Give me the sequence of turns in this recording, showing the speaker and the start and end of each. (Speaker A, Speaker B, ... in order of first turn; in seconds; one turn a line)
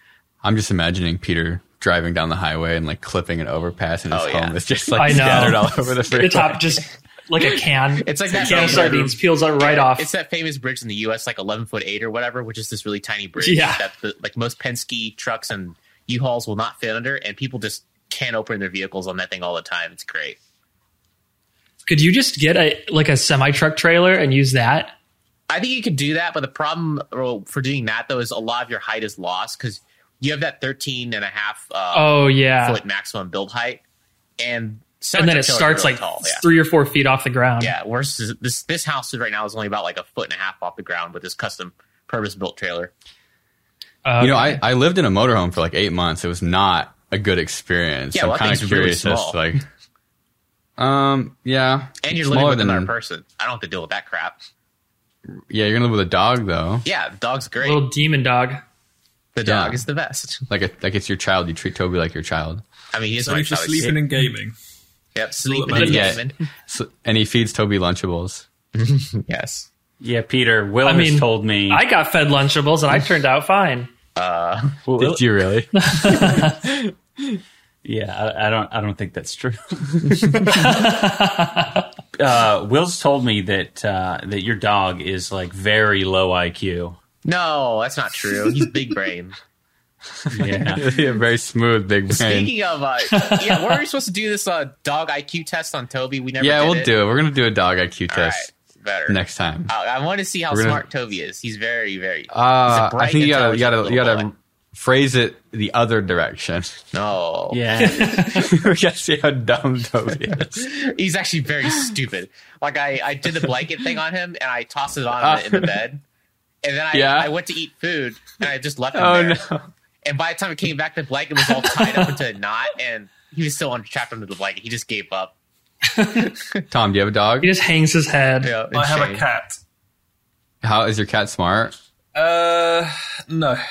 Speaker A: 0.4-6.8
Speaker B: 4.1-4.6
Speaker C: 5.0-10.1
Speaker B: 7.4-20.4
Speaker D: 8.4-9.0
Speaker C: 13.4-13.8
Speaker C: 21.9-24.9
Speaker B: 25.5-33.8
Speaker C: 31.9-32.8
Speaker B: 34.4-36.5
Speaker C: 35.2-37.7
Speaker B: 37.6-42.9
Speaker C: 44.0-44.6
Speaker A: 44.2-49.6
Speaker B: 48.1-49.4
Speaker A: 50.8-52.9
Speaker B: 52.0-54.4
Speaker A: 55.3-56.9
Speaker B: 56.9-57.9
Speaker C: 57.6-58.6
Speaker B: 59.4-60.5
Speaker A: 59.4-59.9
Speaker A: 60.5-62.6
Speaker B: 62.9-64.0
Speaker D: 63.2-64.5
Speaker B: 65.2-66.3
Speaker D: 65.5-66.1
Speaker A: 65.7-68.5
Speaker C: 65.7-66.1
Speaker B: 68.8-69.7
Speaker E: 70.0-71.8
Speaker C: 70.8-73.9
Speaker B: 74.2-74.8
Speaker E: 74.9-75.2
Speaker A: 75.0-77.4
Speaker C: 75.8-76.6
Speaker E: 77.8-80.6
Speaker C: 80.3-81.9
Speaker E: 82.1-87.0
Speaker B: 87.2-89.4
Speaker E: 90.3-90.8
Speaker A: 90.3-92.5
Speaker B: 92.1-96.9
Speaker C: 93.1-93.8
Speaker A: 96.4-98.5
Speaker B: 98.1-104.3
Speaker A: 99.1-99.7
Speaker A: 100.5-100.8
Speaker A: 102.3-106.8
Speaker B: 106.9-107.6
Speaker E: 107.5-108.5
Speaker C: 107.8-108.5
Speaker A: 108.3-110.7
Speaker B: 110.3-116.0
Speaker A: 115.2-115.7
Speaker B: 116.6-119.4
Speaker A: 116.9-117.3
Speaker A: 118.9-119.7
Speaker B: 120.0-125.3
Speaker C: 126.0-126.3
Speaker B: 126.2-126.6
Speaker A: 126.7-127.5
Speaker C: 127.4-128.6
Speaker B: 128.4-129.2
Speaker D: 128.7-129.6
Speaker A: 130.6-131.8
Speaker D: 132.2-133.6